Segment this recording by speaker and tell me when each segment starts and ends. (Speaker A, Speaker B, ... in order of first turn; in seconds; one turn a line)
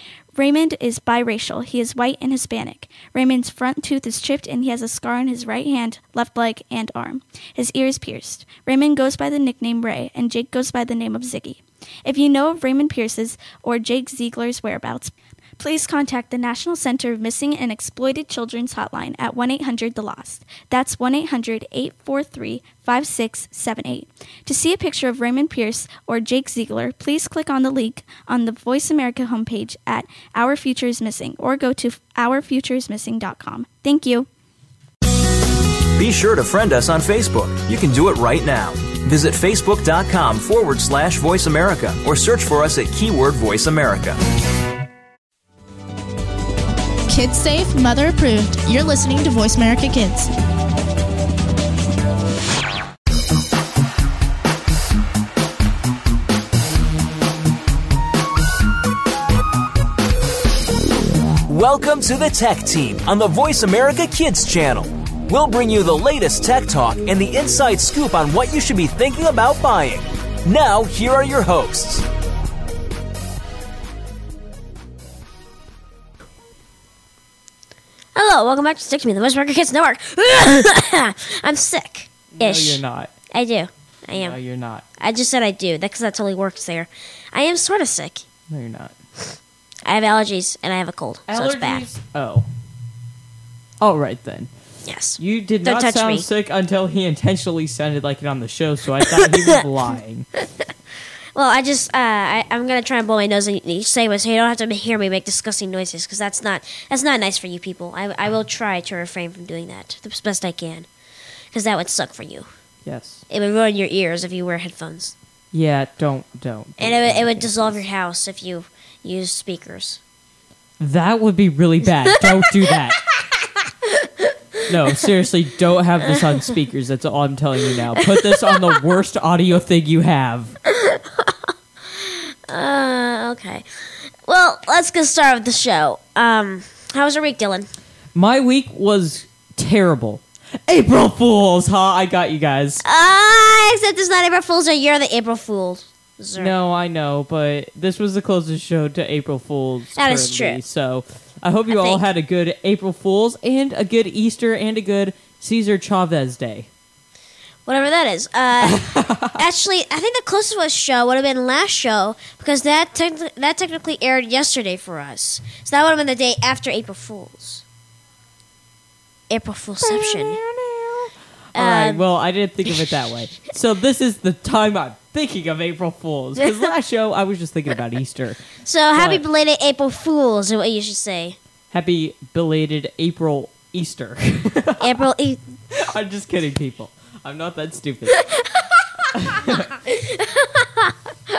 Speaker A: 0.3-34.3
Speaker B: 36.0-44.2
Speaker C: 47.1-50.3
Speaker B: 61.5-72.0
Speaker D: 78.1-84.4
Speaker E: 82.3-83.1
Speaker E: 84.1-84.8
Speaker D: 85.0-88.2
Speaker E: 88.5-88.9
Speaker D: 89.8-91.9
Speaker E: 91.3-92.5
Speaker E: 93.8-94.5
Speaker D: 94.8-96.3
Speaker E: 95.2-100.3
Speaker D: 99.2-99.5
Speaker D: 101.3-110.9
Speaker D: 111.5-112.5
Speaker E: 112.8-113.2
Speaker D: 113.3-115.1
Speaker E: 115.5-117.8
Speaker D: 116.8-120.0
Speaker E: 120.8-123.0
Speaker D: 122.1-122.5
Speaker D: 123.4-124.1
Speaker E: 124.7-130.6
Speaker D: 128.0-128.7
Speaker D: 130.7-133.7
Speaker D: 134.2-137.7
Speaker E: 138.1-142.8
Speaker D: 142.8-146.5
Speaker E: 146.4-156.7
Speaker D: 149.9-150.6
Speaker D: 151.7-152.0
Speaker D: 157.7-167.6
Speaker E: 158.6-159.4
Speaker D: 169.3-170.4
Speaker E: 169.8-179.2
Speaker D: 171.5-172.0
Speaker D: 178.6-181.4
Speaker E: 181.7-185.0
Speaker D: 184.8-185.4
Speaker E: 185.7-188.2
Speaker D: 188.2-188.8
Speaker E: 189.1-189.8
Speaker D: 189.9-190.9